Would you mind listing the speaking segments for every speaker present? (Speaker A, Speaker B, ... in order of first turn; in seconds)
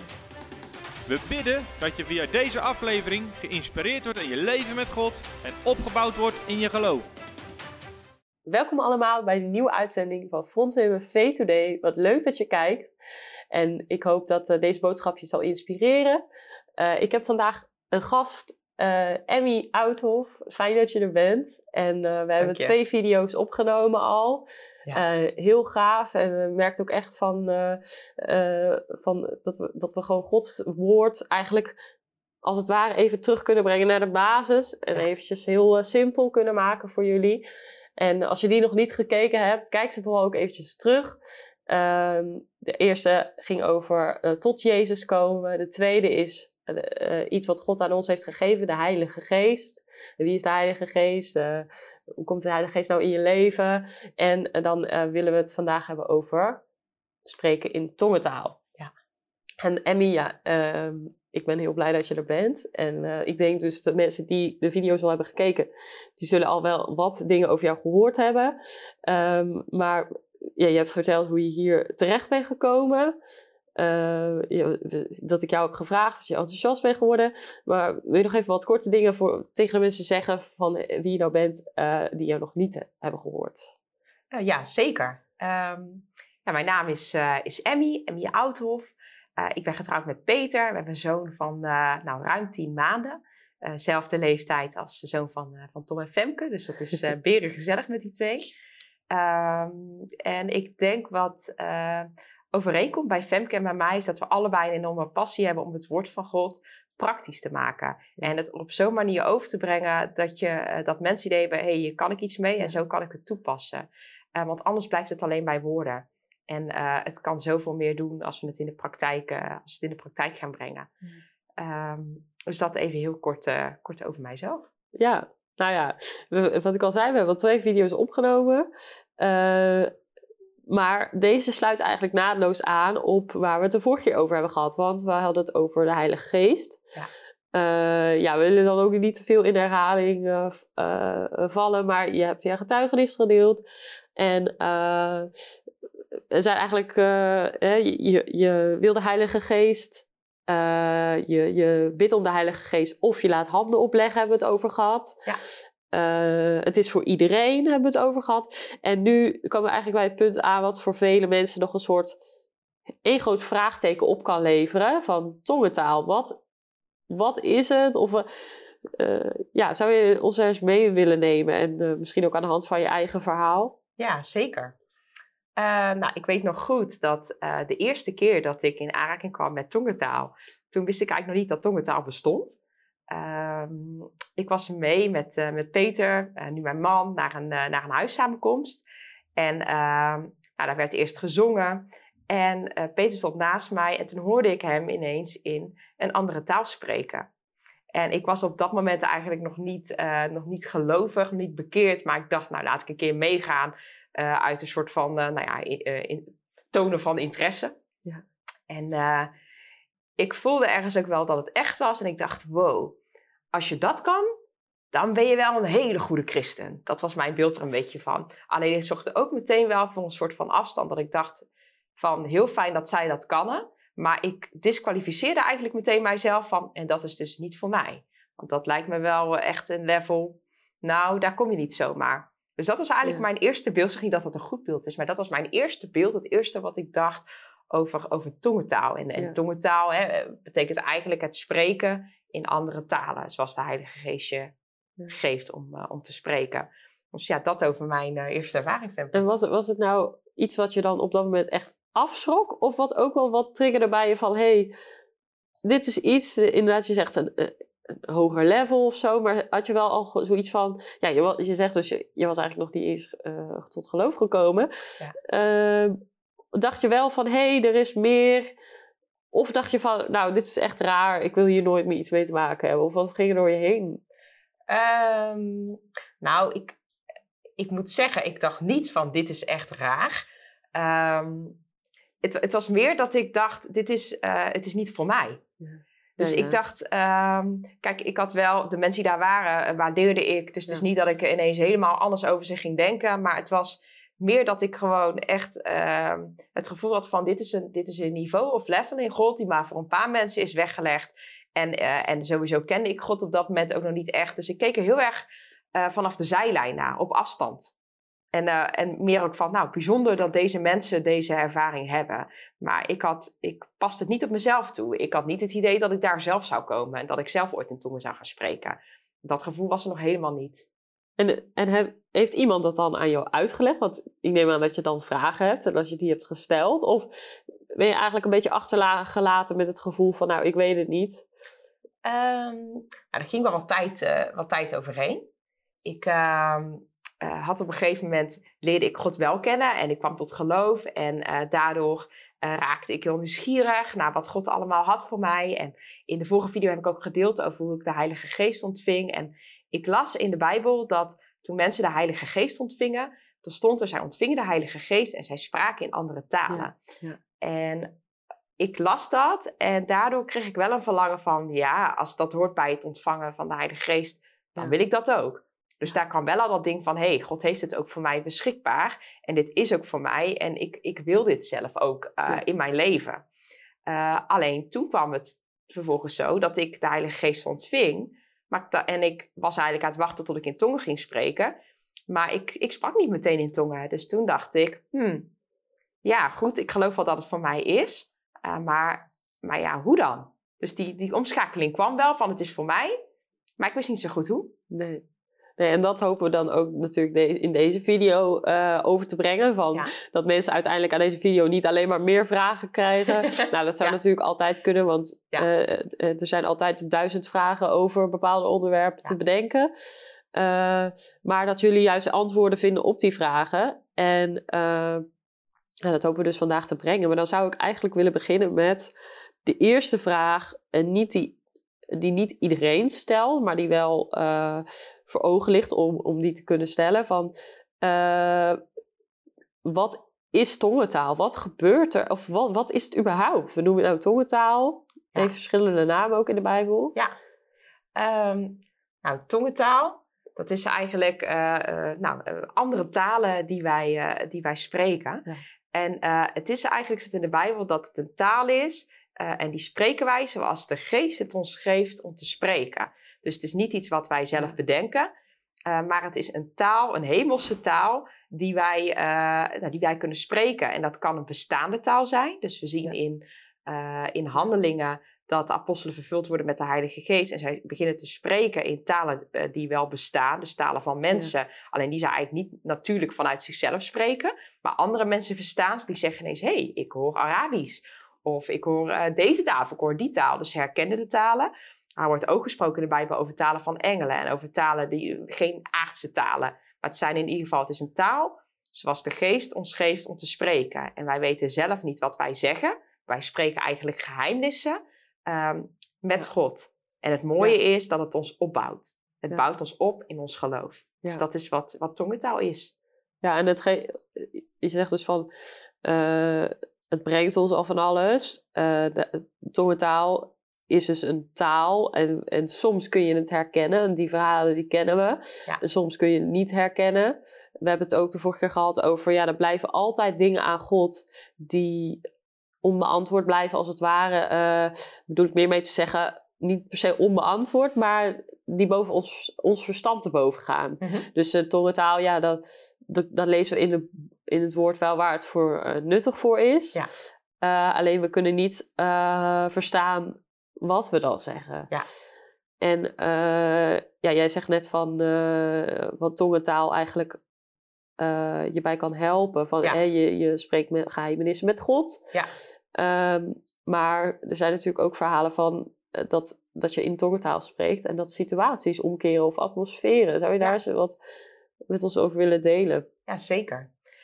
Speaker A: 1.1-7.1
Speaker B: 8.5-12.9, 13.5-16.2, 16.8-31.8, 32.4-37.4, 38.0-41.2, 41.7-56.6, 57.3-58.6, 59.6-73.2, 73.8-83.7, 125.0-129.9, 130.7-136.8, 137.5-143.6, 144.2-145.3, 146.3-155.2, 155.9-162.2, 163.0-166.4, 167.1-168.3, 168.9-173.8, 249.1-254.7, 255.6-264.7, 265.2-266.0, 266.5-268.5, 269.3-274.0, 285.6-286.6, 321.2-327.1, 327.7-331.3, 356.5-357.2, 394.7-395.0, 395.6-409.7, 410.3-415.1, 415.8-418.9, 419.4-421.4, 421.9-428.6, 429.6-436.9, 503.2-505.3, 505.8-522.0, 522.6-536.8, 537.4-541.7, 542.6-547.2, 548.0-552.0, 552.8-561.0, 561.7-562.9
Speaker C: 22.4-22.7, 84.3-98.5, 99.1-120.9, 121.6-124.7, 174.0-174.8, 175.6-182.6, 183.1-188.8, 189.4-197.3, 197.9-207.8, 208.7-209.3, 210.2-213.0, 213.5-214.3, 214.9-221.5, 222.0-244.5, 245.1-249.2, 274.7-276.8, 277.6-281.6, 282.2-285.4, 286.2-307.7, 308.3-320.7, 332.0-335.3, 335.9-356.8, 357.4-357.9, 358.6-373.2, 373.9-381.6, 382.1-385.3, 386.0-393.0, 393.6-394.6, 437.9-455.1, 455.7-502.7, 530.8-531.1, 563.1-563.7